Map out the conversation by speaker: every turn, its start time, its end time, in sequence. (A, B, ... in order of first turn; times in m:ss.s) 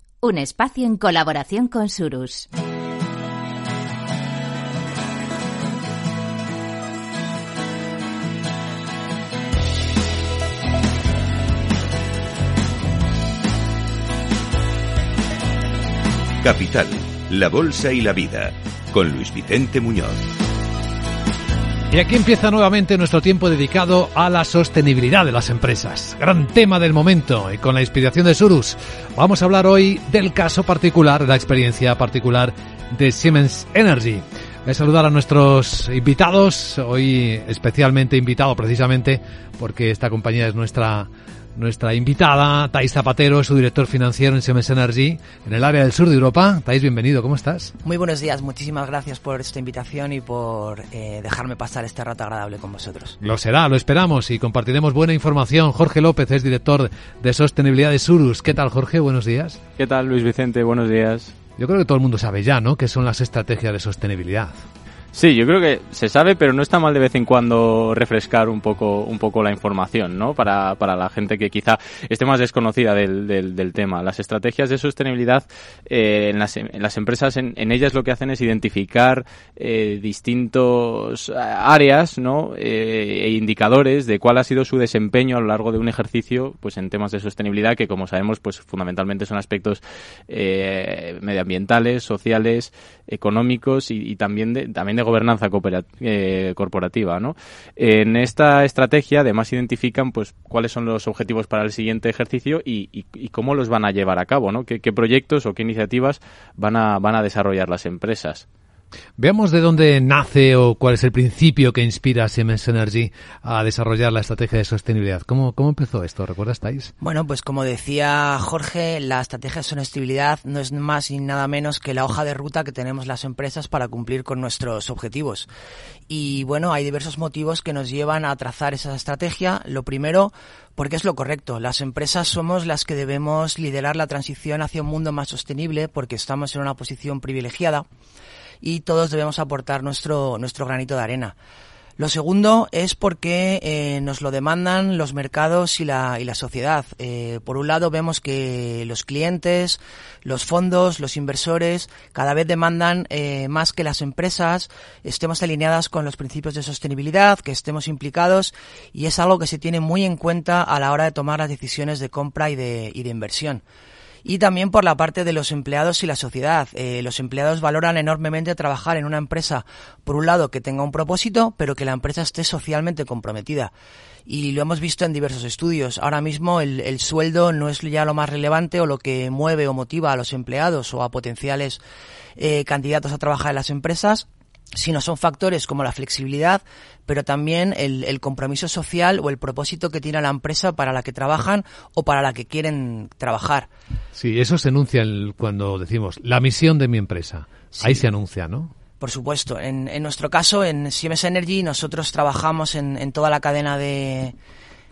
0:00.2-0:02.5 A
0:16.4-0:20.2 B
0:21.9-0:47.7 C
0:47.8-0:53.2 D
0:53.2-0:59.6 C
0:59.8-1:01.4 E
1:01.6-1:04.6 C
1:05.1-1:48.4 E
1:49.2-1:56.9 C
1:57.0-2:05.5 D
2:06.1-2:17.8 D
2:18.6-2:21.4 D
2:22.0-2:43.6 D
2:44.2-2:53.7 D
2:54.3-3:01.8 D
3:02.4-3:13.7 D
3:14.1-3:18.7 C
3:17.7-3:18.1 D
3:19.0-3:24.3 D